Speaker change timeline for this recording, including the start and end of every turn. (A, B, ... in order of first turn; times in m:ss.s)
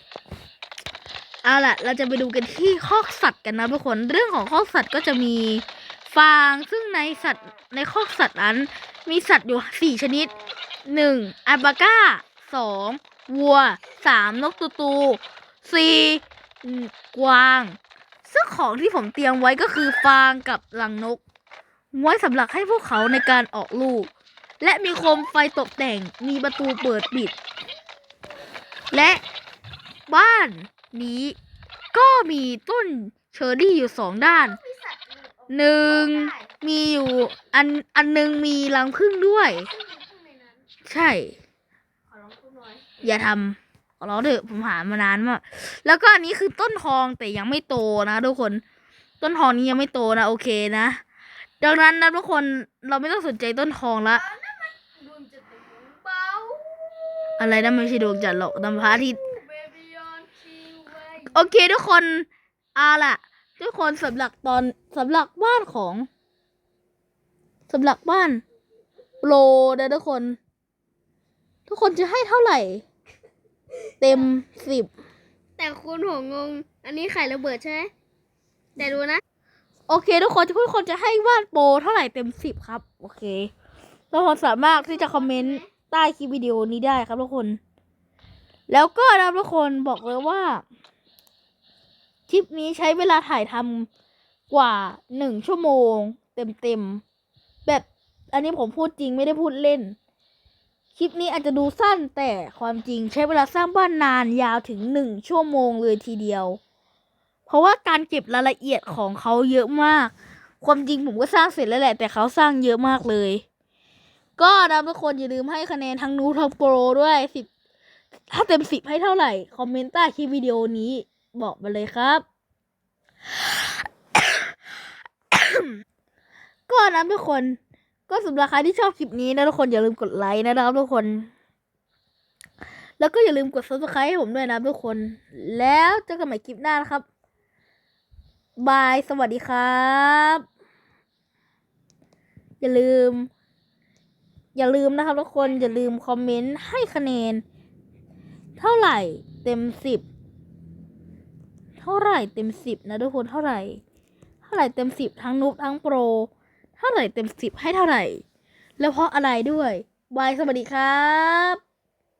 0:01.4-0:10.3 A
0:10.8-0:21.2 A
0:21.9-0:24.1 A
0:24.6-0:27.4 A
0:28.9-0:29.2 A
0:30.1-0:31.4 A
0:31.9-0:34.6 A
0:34.2-0:36.5 B
0:35.5-0:39.7 A
0:39.5-0:40.7 B
0:40.9-0:41.4 A
0:42.1-0:43.0 B
0:43.0-0:48.6 A
0:49.2-0:51.0 A
0:51.6-0:54.2 A
0:54.1-1:01.5 B
0:57.4-0:59.2 A
1:01.2-1:06.1 A
1:07.7-1:08.4 A
1:09.2-1:10.4 A
1:11.7-1:12.8 A
1:14.0-1:14.9 A
1:15.6-1:17.9 B
1:18.8-1:19.2 B
1:19.9-1:23.5 A
1:24.1-1:27.6 A
1:24.7-1:25.7 B
1:28.7-1:30.6 A
1:32.3-1:33.9 A
1:34.5-1:37.0 A
1:37.6-1:40.0 A
1:41.0-1:46.6 A
1:47.5-1:53.4 A
1:54.4-1:57.5 A
1:58.3-2:02.2 A
2:04.2-2:04.5 A
2:05.3-2:05.8 A
2:06.7-2:11.3 A
2:13.0-2:17.0 A
2:18.6-2:20.4 A
2:22.6-2:23.3 A
2:24.6-2:27.4 A
2:28.6-2:30.0 A
2:31.8-2:33.8 A
2:34.4-2:38.2 A
2:38.8-2:41.6 A